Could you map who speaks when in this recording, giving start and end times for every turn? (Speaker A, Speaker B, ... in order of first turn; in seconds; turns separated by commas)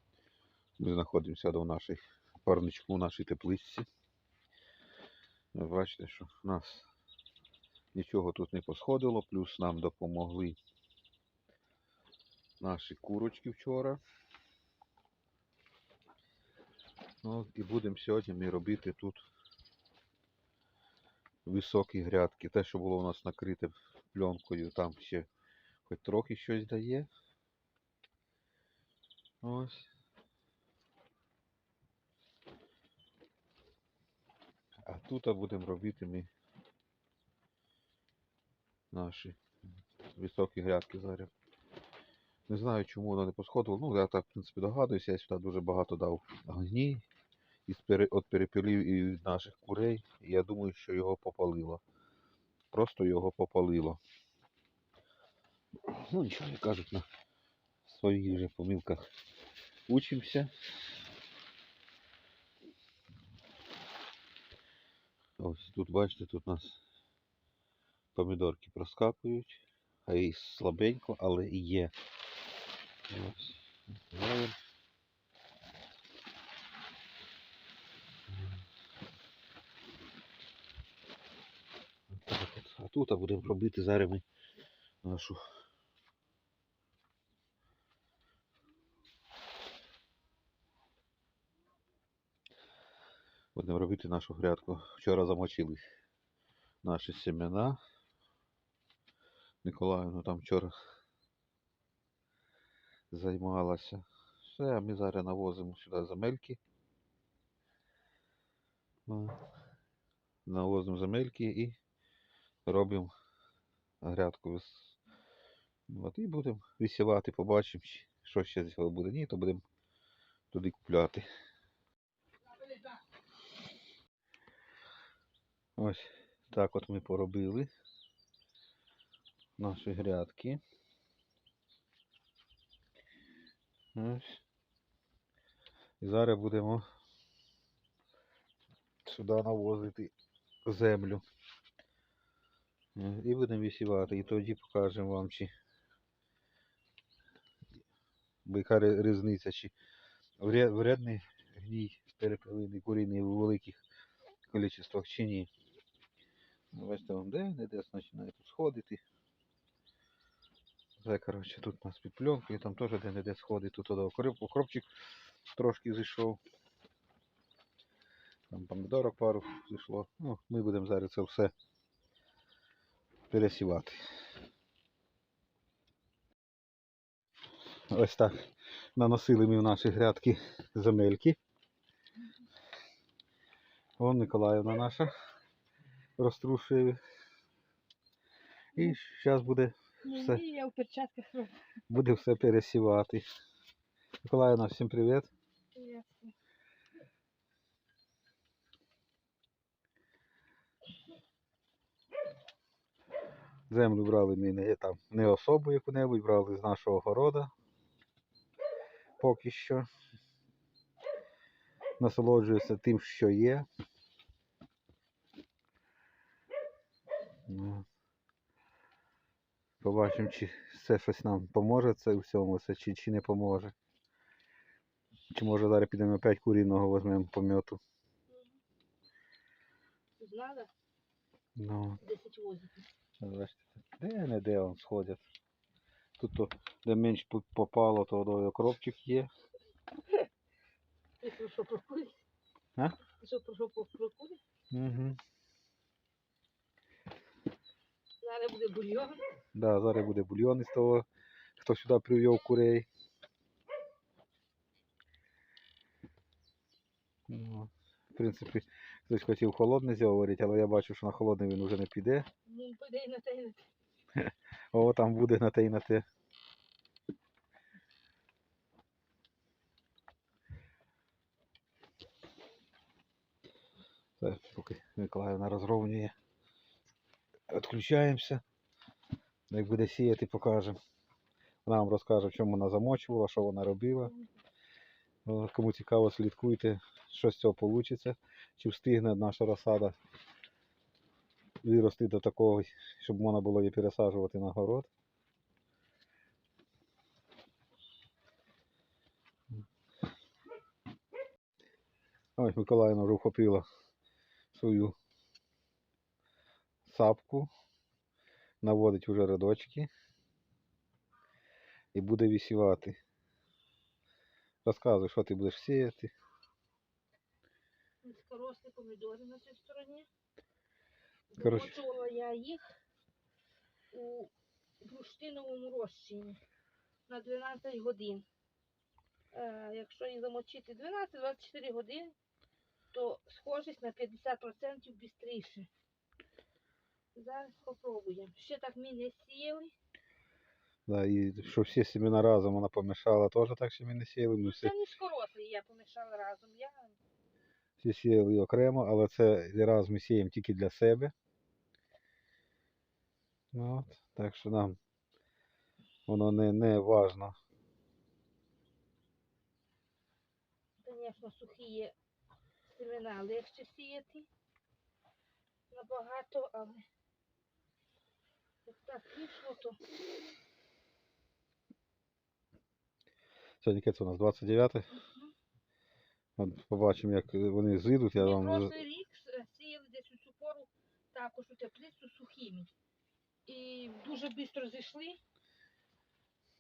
Speaker A: 0.8-3.9, Speaker A: 5.5-6.9, Speaker A: 7.9-10.6, Speaker A: 12.6-14.0, Speaker A: 17.2-19.3, Speaker A: 21.5-25.3, Speaker A: 25.9-27.1, Speaker A: 29.4-29.9, Speaker A: 34.9-36.3, Speaker A: 38.9-39.4, Speaker A: 40.1-41.3, Speaker A: 42.5-47.0, Speaker A: 47.7-51.8, Speaker A: 52.7-54.0, Speaker A: 55.9-57.1, Speaker A: 57.9-59.1, Speaker A: 59.9-60.5, Speaker A: 65.4-66.8, Speaker A: 68.2-71.9, Speaker A: 73.1-74.6, Speaker A: 82.1-84.2, Speaker A: 85.0-85.4, Speaker A: 93.5-95.8, Speaker A: 96.8-97.8, Speaker A: 99.6-100.7, Speaker A: 103.1-106.6, Speaker A: 109.1-109.4, Speaker A: 110.5-111.8, Speaker A: 112.7-113.1, Speaker A: 114.0-115.0, Speaker A: 115.9-119.6, Speaker A: 120.5-121.3, Speaker A: 125.8-127.7, Speaker A: 129.6-130.6, Speaker A: 133.9-134.4, Speaker A: 136.0-136.8, Speaker A: 139.1-140.1, Speaker A: 140.7-141.2, Speaker A: 142.9-145.5, Speaker A: 148.5-149.7, Speaker A: 150.4-153.8, Speaker A: 154.5-155.5, Speaker A: 156.7-159.0, Speaker A: 161.0-164.9, Speaker A: 165.6-166.4, Speaker A: 168.5-171.5, Speaker A: 173.3-174.0, Speaker A: 177.9-181.4, Speaker A: 184.0-185.1, Speaker A: 186.2-187.0, Speaker A: 188.8-190.4, Speaker B: 190.0-191.6, Speaker A: 191.9-193.2, Speaker A: 194.2-195.3, Speaker B: 195.8-196.3, Speaker A: 203.7-207.5, Speaker A: 209.2-209.9, Speaker A: 212.0-213.7, Speaker A: 217.5-217.8, Speaker A: 219.8-223.7, Speaker A: 225.3-227.8, Speaker B: 228.3-228.6, Speaker B: 230.2-230.7, Speaker A: 231.6-232.0, Speaker B: 232.0-232.9, Speaker A: 233.2-235.2, Speaker A: 236.2-239.3, Speaker B: 241.2-242.2, Speaker B: 243.2-244.4, Speaker A: 244.7-245.2, Speaker B: 248.2-249.2, Speaker A: 249.6-251.1, Speaker A: 251.6-252.9, Speaker A: 257.3-262.3, Speaker B: 262.5-263.7, Speaker A: 264.2-266.1, Speaker A: 274.2-276.1, Speaker A: 277.5-278.4, Speaker A: 279.5-280.8, Speaker A: 281.7-284.1, Speaker A: 285.2-289.9, Speaker A: 291.6-294.9, Speaker A: 302.4-303.6, Speaker A: 304.5-304.9, Speaker A: 306.9-307.5, Speaker A: 308.6-309.9, Speaker A: 311.9-313.0, Speaker A: 314.6-316.1, Speaker B: 318.0-320.1, Speaker B: 321.3-322.7, Speaker A: 321.4-321.8, Speaker B: 323.9-326.4, Speaker B: 327.1-328.3, Speaker B: 329.3-332.1, Speaker B: 332.9-335.7, Speaker B: 337.1-339.7, Speaker A: 340.9-344.7, Speaker B: 344.4-347.0, Speaker A: 347.8-351.1, Speaker A: 353.5-354.8, Speaker A: 356.1-357.3, Speaker B: 360.8-361.9, Speaker B: 362.7-364.3, Speaker B: 365.7-366.9, Speaker B: 368.7-369.8, Speaker A: 373.6-374.9, Speaker B: 374.9-375.3, Speaker A: 376.4-378.8, Speaker B: 378.2-382.7, Speaker B: 383.5-385.2